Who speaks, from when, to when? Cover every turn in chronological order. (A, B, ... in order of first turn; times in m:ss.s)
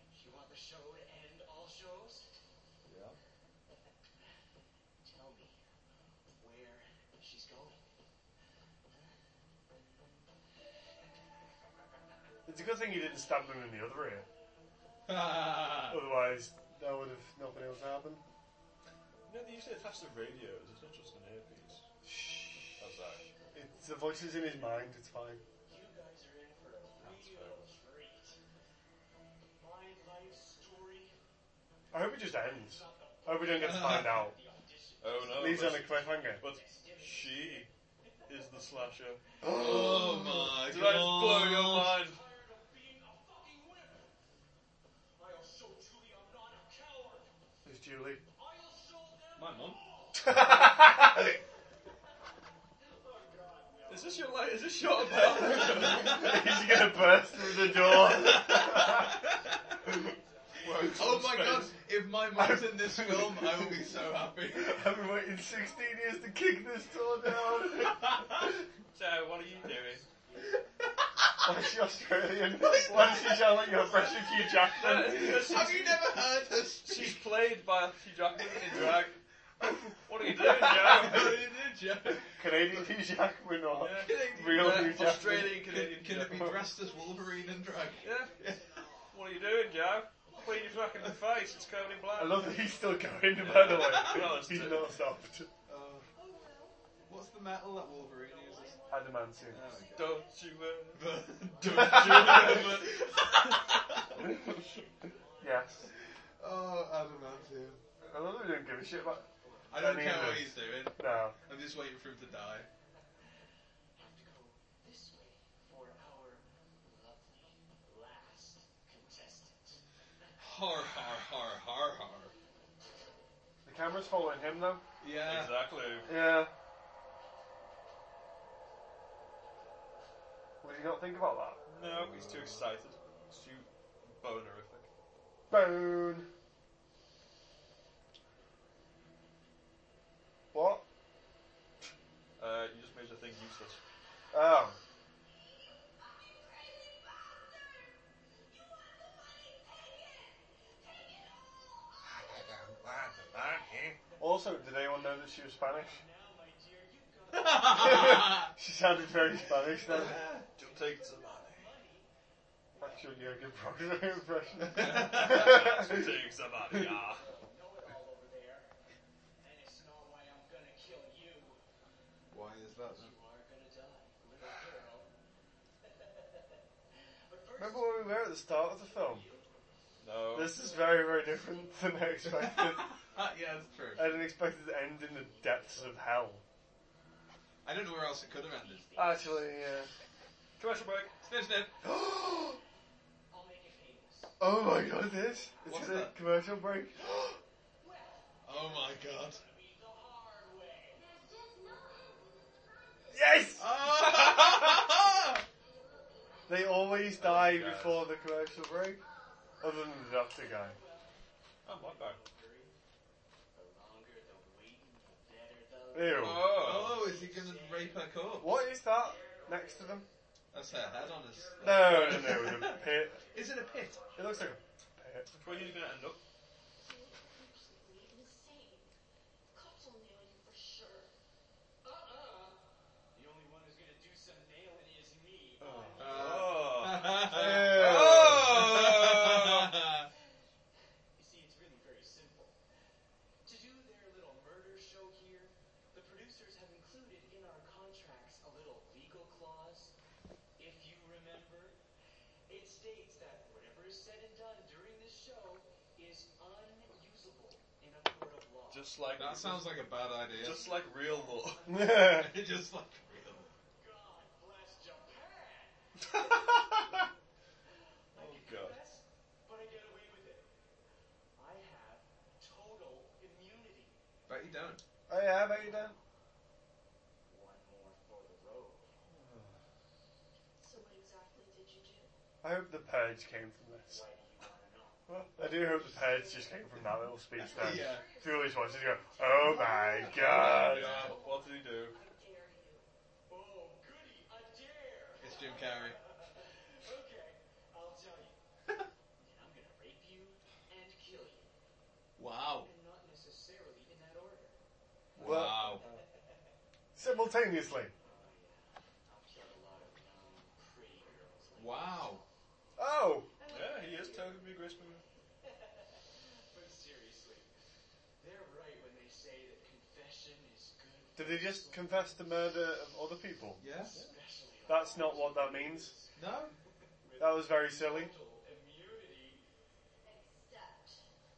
0:00.1-0:02.3 A
0:02.9-0:03.2 B
0:05.0-0:05.6 A
0:06.3-0:07.8 A
0:12.5-0:14.3 C
0:15.1-0:16.1 D
0:15.9-0:18.2 C
0:19.3-0:21.8 B
0:22.0-0:22.8 C
0:22.8-0:23.3 B
0:23.5-0:25.4 C
0:25.6-0:28.4 A
0:27.0-0:27.6 B
0:29.6-0:31.2 A
0:31.9-0:34.4 C
0:32.3-0:39.0 A
0:33.6-0:34.2 D
0:35.0-0:37.7 B
0:35.3-0:36.5 C
0:38.3-0:39.2 B
0:39.4-0:40.6 C
0:39.4-0:42.0 D
0:40.4-0:42.2 B
0:41.9-0:44.2 A
0:45.2-0:47.3 A
0:47.6-0:48.2 C
0:48.3-0:50.8 A
0:49.4-0:49.8 D
0:50.2-0:51.4 C
0:52.8-0:56.3 A
0:53.9-0:56.4 B
0:55.2-0:59.3 C
0:55.8-0:56.4 D
0:57.6-0:59.5 D
0:58.7-1:00.6 A
0:59.8-1:00.1 C
1:00.6-1:01.7 B
1:00.7-1:01.0 C
1:00.7-1:04.9 D
1:02.3-1:03.9 C
1:04.5-1:08.7 C
1:05.3-1:07.1 A
1:07.8-1:08.5 D
1:08.8-1:10.7 A
1:08.9-1:10.1 B
1:11.4-1:15.7 C
1:12.5-1:17.3 D
1:13.4-1:14.6 A
1:14.7-1:16.2 B
1:16.8-1:19.2 B
1:18.4-1:19.1 D
1:20.0-1:21.5 B
1:20.2-1:22.4 D
1:22.4-1:25.6 C
1:23.8-1:26.6 B
1:24.0-1:28.8 D
1:26.2-1:26.6 C
1:26.5-1:33.6 A
1:28.0-1:28.4 B
1:29.1-1:32.6 B
1:32.1-1:35.5 C
1:33.4-1:35.1 B
1:33.6-1:34.4 D
1:35.7-1:36.1 D
1:36.1-1:37.3 A
1:37.1-1:38.8 D
1:38.1-1:40.6 A
1:38.9-1:39.7 C
1:39.4-1:40.2 D
1:39.9-1:43.6 B
1:40.9-1:44.2 D
1:41.2-1:45.9 A
1:41.7-1:42.5 C
1:44.2-1:44.6 C
1:45.4-1:45.9 C
1:46.4-1:47.8 D
1:47.0-1:47.7 A
1:48.0-1:51.4 C
1:48.8-1:50.1 A
1:49.7-1:52.7 D
1:54.0-1:59.8 A
2:00.4-2:02.3 D
2:03.6-2:04.8 C
2:05.0-2:05.8 D
2:05.2-2:06.1 B
2:06.0-2:06.5 C
2:10.6-2:11.6 C
2:11.7-2:14.9 B
2:11.9-2:12.5 D
2:15.5-2:16.3 C
2:20.5-2:20.8 C
2:22.4-2:23.8 B
2:24.3-2:24.8 C
2:25.8-2:32.2 E
2:32.1-2:34.0 B
2:34.0-2:34.9 A
2:34.2-2:36.0 C
2:35.6-2:42.1 A
2:37.3-2:38.5 D
2:37.7-2:40.2 C
2:39.8-2:40.4 D
2:40.6-2:41.7 B
2:42.8-2:45.3 A
2:42.8-2:46.9 C
2:44.7-2:45.6 D
2:45.1-2:47.2 B
2:46.9-2:48.7 A
2:49.4-2:51.6 A
2:52.3-2:53.1 D
2:52.9-2:55.1 A
2:57.3-2:59.5 A
2:57.6-2:59.3 C
3:00.0-3:00.6 B
3:00.3-3:03.0 C
3:00.6-3:01.8 A
3:02.4-3:04.2 D
3:03.0-3:03.9 A
3:04.0-3:06.4 C
3:05.2-3:06.0 A
3:07.6-3:08.9 D
3:07.9-3:09.7 A
3:09.0-3:09.9 C
3:10.6-3:11.1 B
3:11.2-3:11.8 D
3:11.8-3:12.6 C
3:13.3-3:14.4 A
3:14.4-3:17.4 C
3:15.6-3:16.2 D
3:17.8-3:21.0 A
3:18.4-3:19.4 D
3:20.9-3:23.7 E
3:23.1-3:23.8 C
3:23.6-3:25.5 D
3:24.9-3:26.9 E
3:26.5-3:29.0 C
3:27.2-3:28.1 B
3:29.0-3:29.6 E
3:29.6-3:30.8 C
3:30.2-3:32.7 A
3:31.6-3:32.2 B
3:33.5-3:44.6 A
3:35.9-3:36.6 C
3:36.2-3:37.1 B
3:36.2-3:38.7 D
3:38.4-3:40.1 C
3:40.5-3:44.0 D
3:41.6-3:43.2 C
3:44.2-3:45.4 C
3:45.3-3:46.2 B
3:45.5-3:45.8 A
3:46.8-3:48.9 E
3:49.5-3:51.1 E
3:51.8-3:52.6 A
3:53.1-3:56.7 A
3:55.6-3:56.0 C
3:55.9-3:59.9 B
3:56.0-4:00.1 D
3:57.3-3:58.5 C
4:01.2-4:02.6 A
4:03.4-4:09.9 A
4:10.6-4:11.8 A
4:12.5-4:18.9 A
4:18.7-4:21.7 B
4:19.2-4:20.7 D
4:20.3-4:22.2 A
4:21.7-4:22.4 C
4:21.9-4:23.5 D
4:23.8-4:25.8 A
4:26.0-4:27.1 B
4:28.1-4:30.5 A
4:28.2-4:28.8 B
4:31.4-4:34.0 A
4:34.3-4:34.8 D
4:35.1-4:36.0 C
4:35.6-4:36.0 A
4:37.3-4:38.9 A
4:39.1-4:39.5 B
4:40.6-4:42.1 E
4:42.4-4:44.0 C
4:43.9-4:45.0 A
4:45.1-4:45.4 B
4:45.4-4:51.0 C
4:45.7-4:46.6 E
4:47.4-4:52.9 E
4:47.4-4:48.1 D
4:50.1-4:51.2 D
4:50.4-4:52.0 B
4:53.3-4:58.4 A
4:55.2-4:56.0 D
4:59.2-5:01.5 A
5:02.2-5:02.7 D
5:02.6-5:04.6 A
5:05.2-5:05.9 D
5:05.2-5:05.8 C
5:05.2-5:06.0 B
5:05.7-5:06.0 A
5:07.0-5:07.9 C
5:08.0-5:12.3 A
5:11.6-5:12.2 D
5:12.8-5:13.3 C
5:13.4-5:14.5 A
5:13.5-5:15.0 B
5:15.4-5:17.5 A
5:18.2-5:22.1 A
5:21.2-5:23.6 C
5:23.6-5:24.0 D
5:23.8-5:29.4 A
5:24.7-5:26.0 C
5:26.2-5:26.6 D
5:27.2-5:28.1 C
5:30.0-5:31.0 E